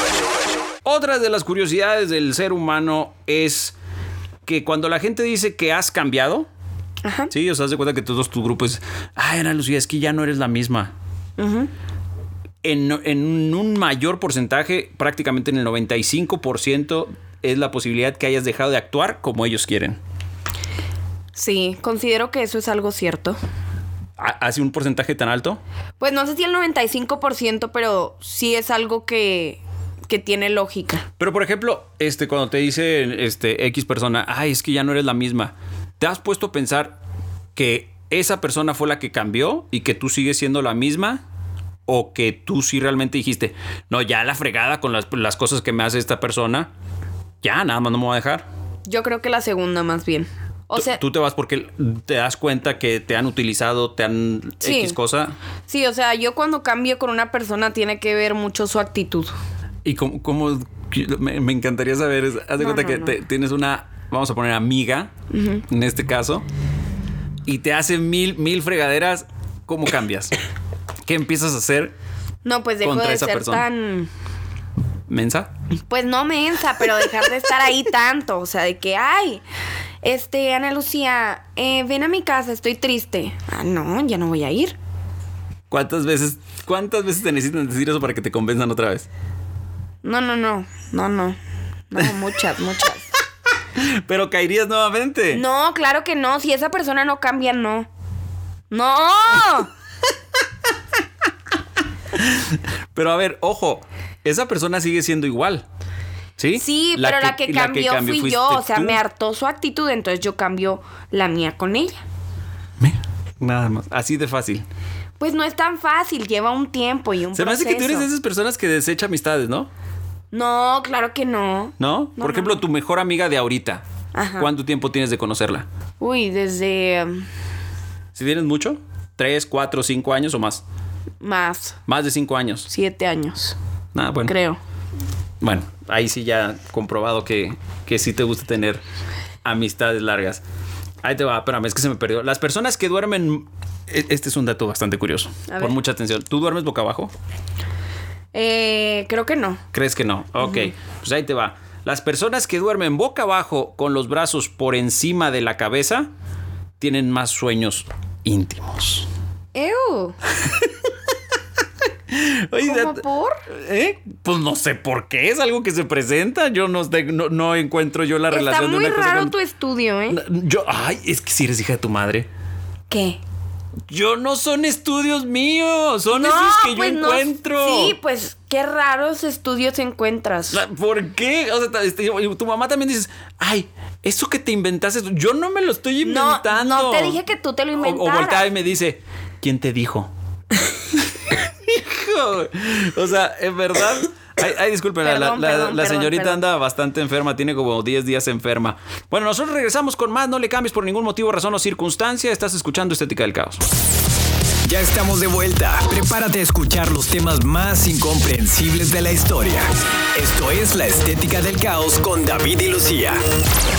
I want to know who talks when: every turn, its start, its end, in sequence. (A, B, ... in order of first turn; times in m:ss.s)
0:00.8-0:03.7 A
0:04.4-0:06.5 A
0:07.0-0:07.3 B
0:07.3-0:10.9 A
0:11.4-0:11.7 B
0:12.6-0:20.0 A
0:21.3-0:23.4 B
0:24.2-0:25.6 A
0:26.0-0:31.0 B
0:31.2-0:37.0 A
0:37.6-0:41.2 A
0:41.9-0:46.7 A
0:47.4-0:48.4 A
0:48.9-0:51.0 B
0:50.7-0:55.3 A
0:54.6-0:55.0 B
0:55.7-0:59.3 B
0:59.8-1:05.1 A
1:02.6-1:03.1 B
1:05.3-1:05.6 B
1:05.7-1:06.4 A
1:07.4-1:10.3 A
1:11.0-1:11.9 A
1:12.4-1:14.1 B
1:12.8-1:13.6 A
1:15.1-1:15.5 A
1:15.9-1:19.4 B
1:20.0-1:24.8 B
1:25.7-1:29.1 A
1:30.0-1:31.4 B
1:31.9-1:33.1 B
1:33.8-1:35.4 A
1:35.3-1:37.9 B
1:38.7-1:39.7 B
1:42.1-1:45.6 A
1:46.4-1:49.0 A
1:46.6-1:52.0 B
1:52.8-1:54.6 A
1:55.2-1:58.1 B
1:57.3-1:59.7 A
2:00.3-2:02.6 B
2:01.8-2:03.8 A
2:04.1-2:04.5 B
2:04.4-2:05.6 A
2:06.0-2:07.2 B
2:08.1-2:10.6 A
2:11.2-2:11.8 B
2:11.9-2:12.7 A
2:12.7-2:13.6 B
2:13.9-2:14.3 A
2:14.2-2:14.6 B
2:15.4-2:18.8 A
2:19.4-2:20.4 A
2:21.0-2:27.1 A
2:25.5-2:25.8 B
2:28.3-2:29.6 B
2:29.7-2:36.1 A
2:30.4-2:30.7 B
2:36.8-2:39.1 A
2:39.5-2:40.2 B
2:40.4-2:40.7 A
2:42.1-2:49.3 A
2:42.6-2:43.4 B
2:48.3-2:50.2 B
2:50.1-2:52.3 A
2:52.9-2:53.2 B
2:53.9-2:58.0 A
2:56.1-3:00.6 B
3:00.5-3:07.2 A
3:06.0-3:08.5 B
3:07.8-3:10.1 A
3:11.3-3:23.6 A
3:15.0-3:16.4 B
3:24.6-3:33.2 C